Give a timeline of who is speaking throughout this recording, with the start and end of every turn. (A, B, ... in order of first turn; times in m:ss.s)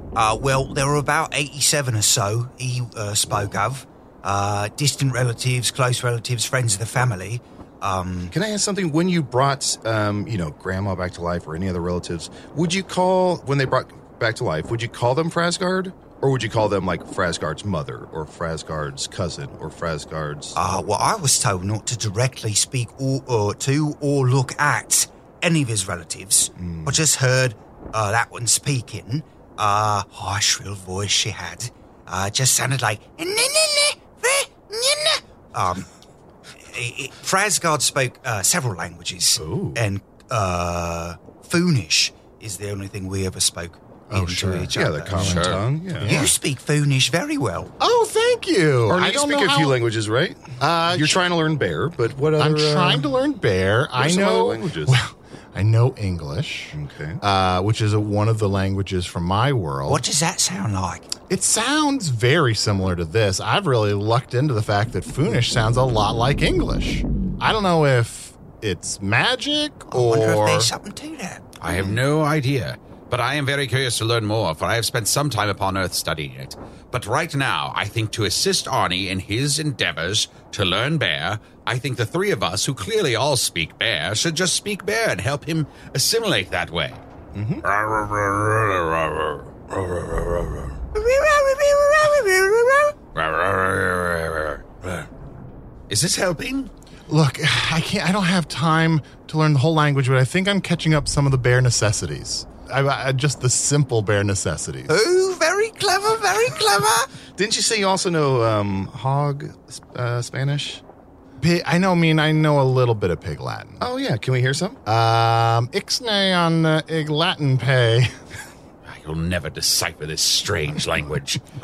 0:00.1-0:08.4 A
0:08.3-0:20.6 B
0:20.6-0:35.9 A
0:26.6-0:27.0 B
0:36.6-0:47.7 A
0:39.4-0:39.8 B
0:44.1-0:46.4 C
0:44.7-0:46.1 B
0:45.2-0:45.6 D
0:47.8-0:49.8 C
0:48.9-0:53.1 B
0:50.6-0:51.2 C
0:52.4-1:00.0 C
0:54.0-0:55.0 B
0:56.7-0:57.2 B
0:59.9-1:01.1 A
1:01.3-1:10.7 C
1:09.9-1:11.4 A
1:11.6-1:27.0 D
1:27.3-1:27.6 B
1:27.6-1:30.8 D
1:30.9-1:33.0 A
1:33.1-1:35.1 D
1:35.9-1:36.7 D
1:37.1-1:44.9 C
1:44.9-1:47.1 A
1:47.4-1:50.8 B
1:51.4-1:53.9 C
1:53.8-1:54.8 B
1:54.9-1:58.1 C
1:58.9-2:01.4 D